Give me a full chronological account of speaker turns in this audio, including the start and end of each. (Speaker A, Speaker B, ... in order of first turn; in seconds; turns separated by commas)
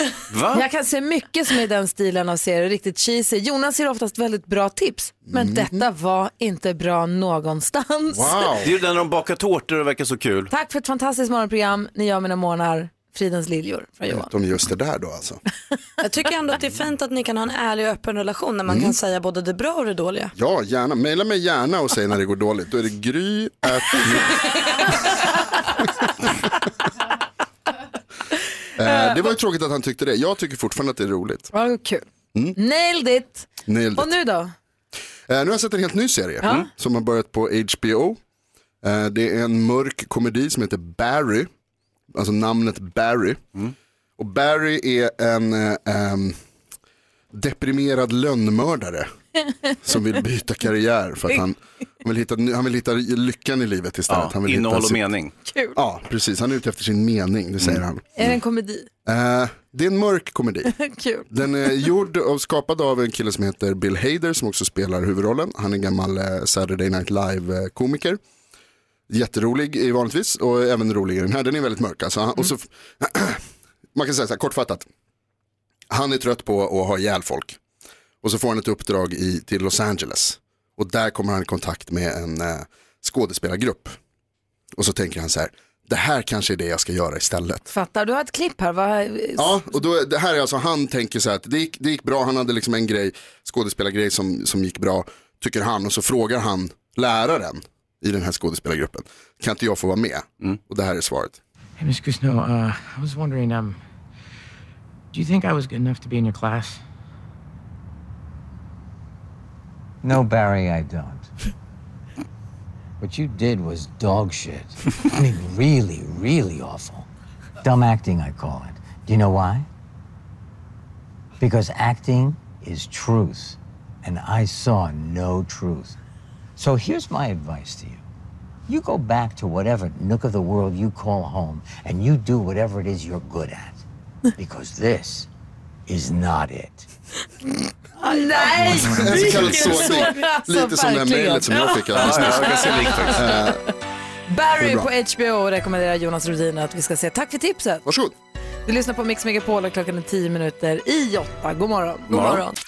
Speaker A: 0.3-0.7, Speaker B: 0.5-8.6, Speaker C: 5.3-5.8, Speaker C: 8.1-8.7, Speaker A: 8.6-10.5, Speaker B: 10.5-14.3, Speaker C: 14.1-15.4, Speaker D: 16.0-20.3, Speaker C: 18.7-18.9, Speaker C: 20.4-24.4, Speaker C: 28.8-31.5, Speaker B: 31.5-34.5, Speaker C: 33.7-34.1, Speaker C: 35.3-38.2, Speaker B: 36.4-36.7, Speaker C: 38.8-41.5, Speaker C: 42.1-43.4, Speaker C: 44.2-46.4, Speaker C: 47.3-49.1, Speaker C: 49.8-55.0, Speaker A: 54.1-55.3, Speaker B: 55.4-55.8, Speaker C: 55.8-58.4, Speaker B: 58.1-58.9, Speaker C: 59.0-60.7, Speaker B: 60.6-61.8, Speaker C: 61.3-68.2, Speaker C: 69.1-73.4, Speaker C: 73.9-74.9, Speaker C: 75.9-77.6, Speaker C: 78.2-84.0, Speaker C: 84.8-87.7, Speaker B: 87.7-89.8, Speaker C: 89.4-101.4, Speaker E: 101.8-103.8, Speaker E: 105.1-106.8, Speaker F: 110.0-111.3, Speaker F: 113.0-117.1, Speaker F: 117.6-119.7, Speaker F: 121.4-126.0, Speaker F: 126.6-128.0, Speaker F: 128.7-133.8, Speaker F: 134.4-135.3, Speaker F: 135.9-136.9, Speaker B: 138.0-143.6, Speaker D: 138.2-140.1, Speaker C: 138.8-142.6, Speaker A: 141.9-143.3, Speaker C: 143.1-143.6, Speaker B: 144.3-147.8, Speaker C: 144.6-144.9, Speaker C: 147.8-148.1, Speaker B: 148.7-152.2, Speaker D: 152.1-152.6, Speaker A: 152.1-152.4